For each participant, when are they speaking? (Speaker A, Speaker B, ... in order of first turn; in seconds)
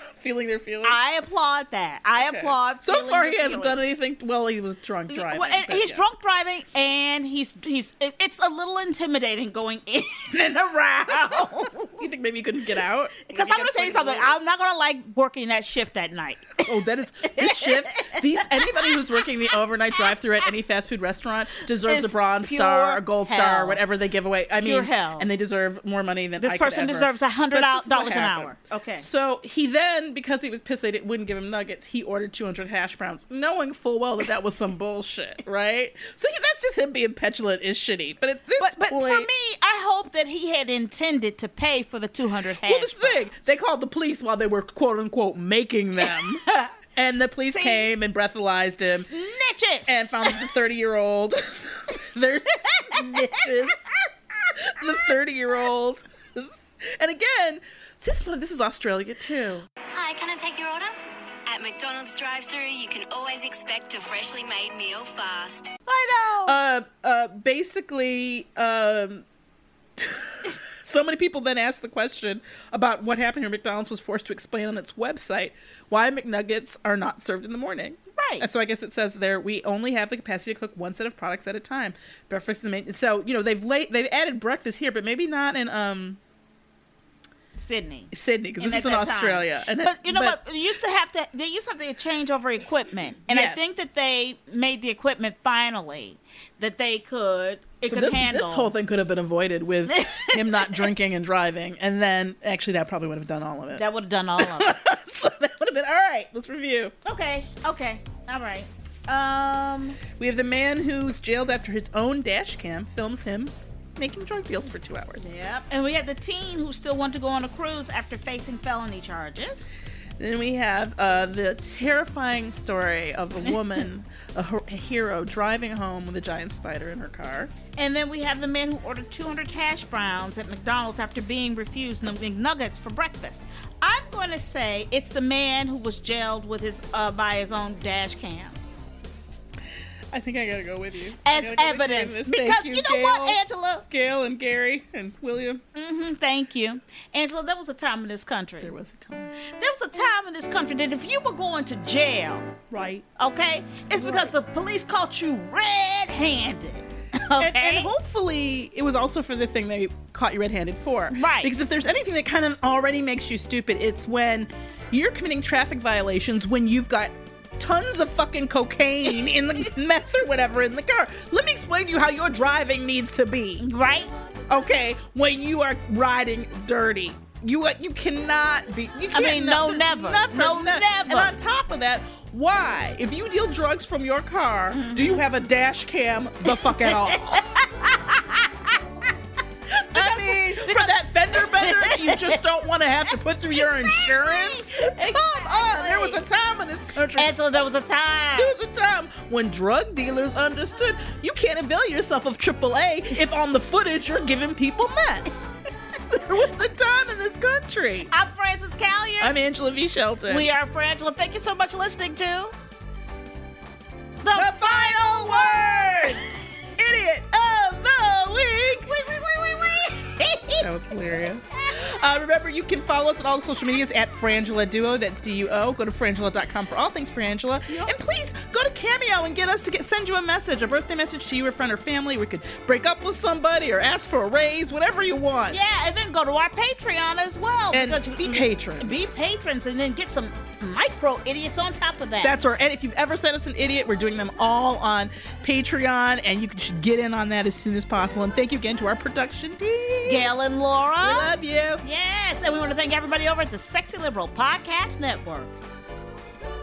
Speaker A: 0.2-1.0, 2.2-6.0, 10.4-14.3, 16.6-39.3, 42.6-49.1, 49.9-53.9, 54.8-59.6, 66.5-69.2, 70.8-86.2, 88.1-90.4, 93.3-93.6, 97.8-103.8, 104.4-106.9, 110.2-115.2, 120.2-127.5, 140.1-145.6, 148.6-149.3, 152.7-153.1, 153.9-154.3, 157.4-173.6, 174.5-187.5, 189.9-197.3, 198.3-205.4, 206.1-208.1, 209.2-210.5, 214.3-216.2, 216.8-218.9, 220.6-235.6, 237.7-239.0, 242.2-250.3, 251.0-251.8
Speaker B: 0.8-4.0, 5.1-11.8, 13.3-16.6, 17.3-18.2, 21.9-23.8, 24.6-25.3, 26.4-29.1, 38.6-43.3, 47.5-47.9, 48.8-50.4, 65.9-66.6, 78.2-78.5, 87.6-98.7, 99.9-100.8, 103.8-104.8, 107.0-110.0, 115.2-119.7, 127.7-138.6, 141.2-143.8, 145.7-148.7, 149.5-152.5, 153.2-157.9, 161.1-161.5, 173.6-174.1, 179.1-181.3, 184.7-185.2, 186.8-188.7, 189.9-192.4, 193.5-196.2, 197.2-198.5, 208.1-209.3, 210.3-212.5, 214.2-216.2, 218.7-220.7, 235.5-242.4, 250.1-255.5
Speaker C: 59.9-65.7